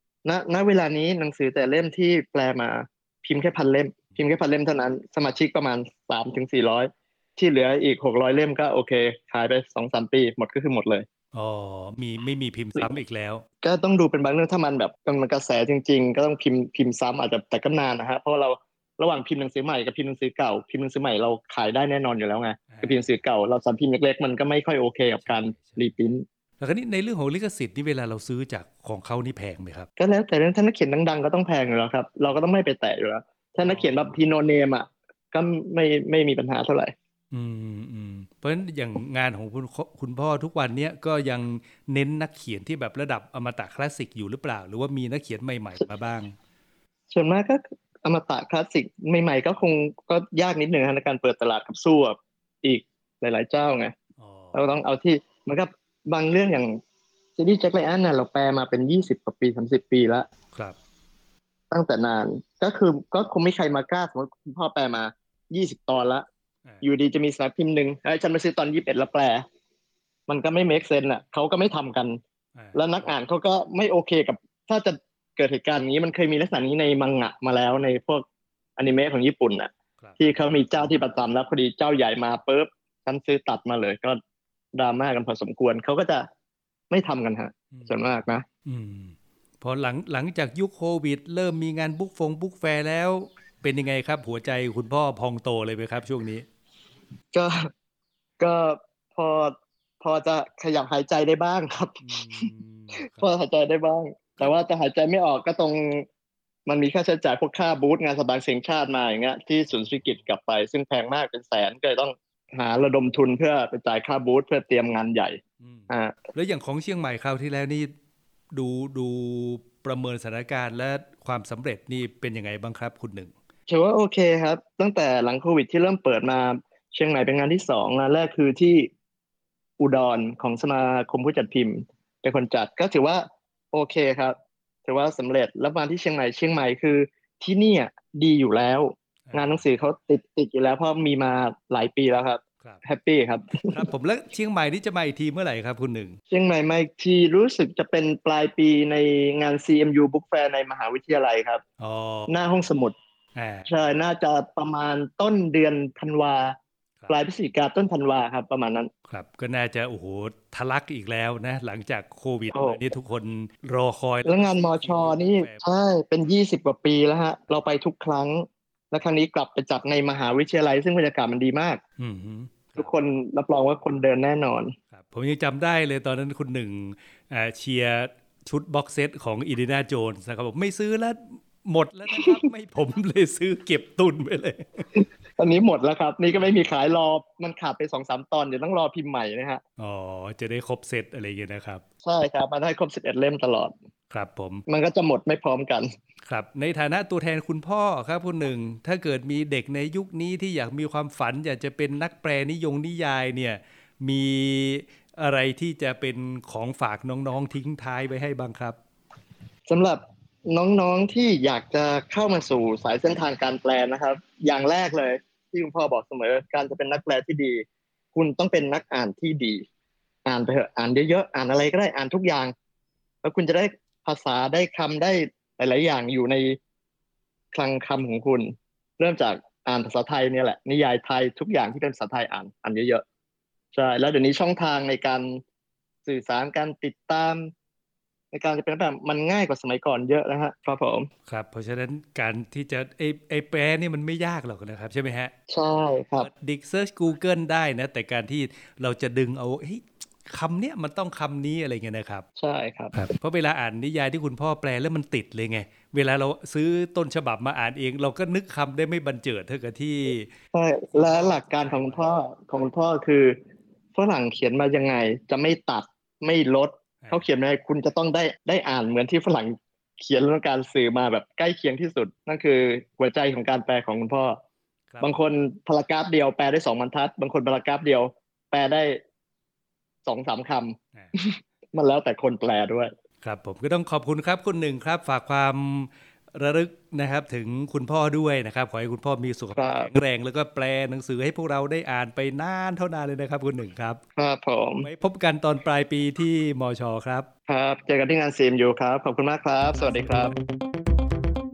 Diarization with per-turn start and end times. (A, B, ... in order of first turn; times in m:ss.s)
0:00.2-0:11.1 A
0:11.3-0:13.4 B
0:13.6-0:26.2 A
0:22.7-0:23.1 B
0:25.2-0:25.8 B
0:26.6-0:29.9 B
0:30.0-0:36.9 A
0:33.6-0:34.2 B
0:37.3-0:46.3 B
0:47.1-0:53.9 A
0:54.2-0:54.7 B
0:54.5-0:56.8 A
0:57.4-1:00.2 A
1:01.7-1:06.2 A
1:06.8-1:09.4 A
1:10.3-1:12.2 A
1:12.6-1:13.1 B
1:12.7-1:18.2 A
1:18.8-1:24.2 A
1:24.7-1:26.3 A
1:26.9-1:28.4 A
1:27.7-1:28.0 B
1:28.7-1:36.4 B
1:37.3-1:37.7 A
1:38.4-1:42.4 A
1:42.0-1:43.3 B
1:43.1-1:46.0 A
1:46.6-1:56.1 A
1:49.7-1:50.2 B
1:55.6-1:57.9 B
1:58.5-2:03.3 B
2:03.7-2:08.9 A
2:09.8-2:23.8 A
2:19.3-2:19.6 B
2:23.7-2:26.2 B
2:26.3-2:31.6 A
2:31.8-2:32.3 B
2:32.3-2:32.9 A
2:33.4-2:33.7 B
2:33.7-2:36.6 A
2:37.1-2:38.9 A
2:39.1-2:45.6 B
2:42.5-2:42.8 A
2:44.2-2:51.8 A
2:52.0-2:52.9 B
2:52.8-2:54.7 A
2:54.9-3:04.8 B
3:04.9-3:09.6 A
3:06.4-3:06.6 B
3:09.8-3:11.8 B
3:12.0-3:13.7 A
3:14.1-3:14.6 B
3:14.7-3:15.9 A
3:16.2-3:28.8 B
3:29.7-3:39.6 A
3:40.2-3:42.5 A
3:43.2-3:46.6 A
3:47.5-3:53.0 A
3:53.7-3:55.4 A
3:56.0-3:57.5 A
3:58.3-4:01.1 A
4:01.3-4:05.3 B
4:05.5-4:06.3 A
4:06.2-4:12.2 B
4:12.4-4:13.0 A
4:12.9-4:20.3 B
4:20.5-4:23.4 A
4:20.9-4:22.0 B
4:23.9-4:34.4 A
4:34.9-4:35.2 B
4:35.0-4:39.0 A
4:40.0-4:42.9 A
4:43.2-4:54.0 B
4:49.6-4:49.9 A
4:54.2-4:54.9 A
4:54.8-4:57.3 B
4:57.5-5:00.3 A
4:59.8-5:00.3 B